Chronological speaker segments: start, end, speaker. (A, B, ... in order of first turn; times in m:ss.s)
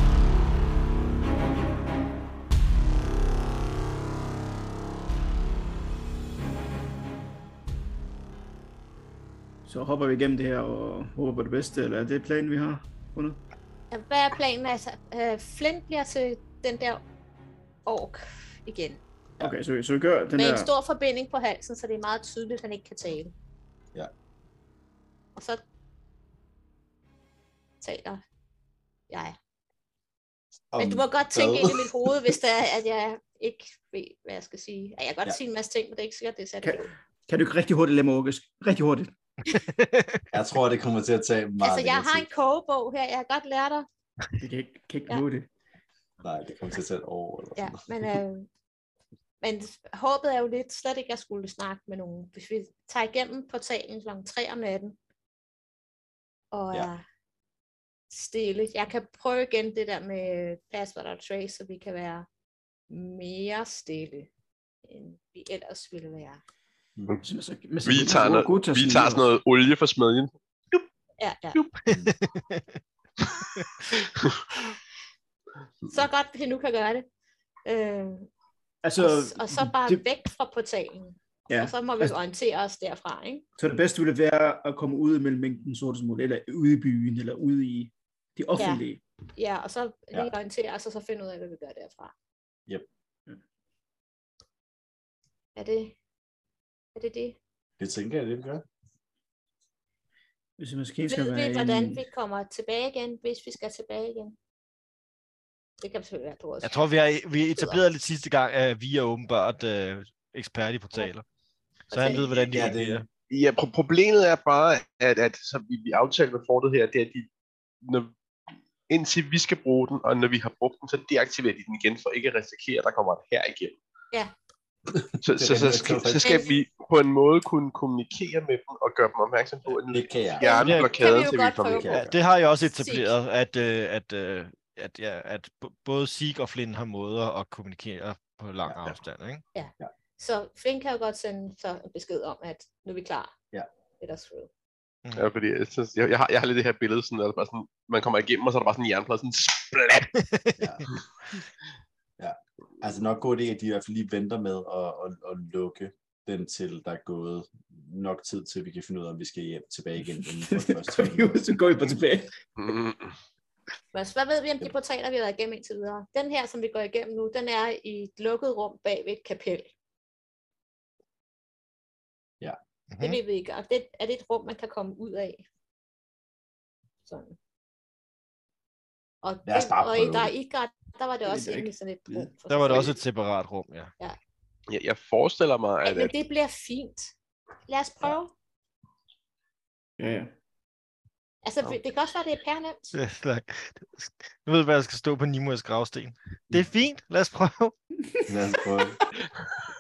0:09.6-0:13.4 A
0:13.9-0:17.0 B
0:17.8-0:19.0 B
0:19.4-0:20.7 A
0:20.4-0:23.3 B
0:25.3-0:25.6 B
0:27.8-0:28.2 B
0:29.1-0:29.4 B
0:30.7-0:32.4 C
0:30.8-0:36.9 B
0:36.6-0:39.1 A
0:39.5-0:40.2 D
0:40.3-0:42.3 C
0:41.6-0:43.9 B
0:44.4-0:45.5 A
0:46.2-0:47.9 C
0:47.6-0:48.5 B
0:49.4-0:55.0 B
0:56.5-0:57.0 B
0:58.1-1:02.3 B
1:02.9-1:04.3 B
1:04.8-1:06.4 B
1:07.2-1:09.2 A
1:07.8-1:10.8 E
1:11.2-1:11.6 B
1:11.8-1:12.8 D
1:11.9-1:12.1 C
1:13.6-1:14.0 D
1:14.0-1:14.7 E
1:15.9-1:17.1 B
1:17.6-1:18.3 B
1:18.8-1:20.0 A
1:19.0-1:23.4 B
1:21.5-1:22.2 A
1:23.6-1:29.0 A
1:28.6-1:28.8 B
1:29.4-1:32.1 B
1:35.6-1:36.0 B
1:36.9-1:37.4 B
1:37.8-1:38.6 C
1:40.6-1:42.0 A
1:41.1-1:44.4 B
1:45.8-1:46.8 B
1:46.6-1:51.2 D
1:47.6-1:47.8 B
1:51.9-1:53.1 D
1:51.9-1:52.3 B
1:52.4-1:53.0 C
1:53.3-1:57.3 E
1:57.8-1:58.1 E
1:58.9-2:03.7 E
2:04.9-2:06.4 C
2:05.2-2:12.1 E
2:06.2-2:06.6 B
2:09.9-2:10.5 C
2:10.4-2:11.9 B
2:10.6-2:11.2 D
2:11.8-2:12.1 C
2:11.9-2:19.4 D
2:12.8-2:13.1 B
2:18.7-2:18.9 C
2:19.5-2:23.3 B
2:24.0-2:24.5 B
2:25.1-2:30.1 E
2:30.2-2:30.7 D
2:30.6-2:30.9 C
2:32.2-2:41.4 C
2:40.2-2:42.3 A
2:42.6-2:43.2 E
2:43.9-2:49.7 B
2:52.9-2:53.2 D
2:53.0-2:55.4 B
2:57.0-2:57.4 B
2:59.2-3:03.0 B
2:59.4-3:00.3 C
3:01.2-3:02.3 A
3:02.5-3:03.9 D
3:04.7-3:06.1 E
3:05.8-3:07.1 B
3:07.7-3:08.3 B
3:10.0-3:10.3 A
3:11.4-3:13.0 B
3:12.9-3:17.7 D
3:18.3-3:19.0 C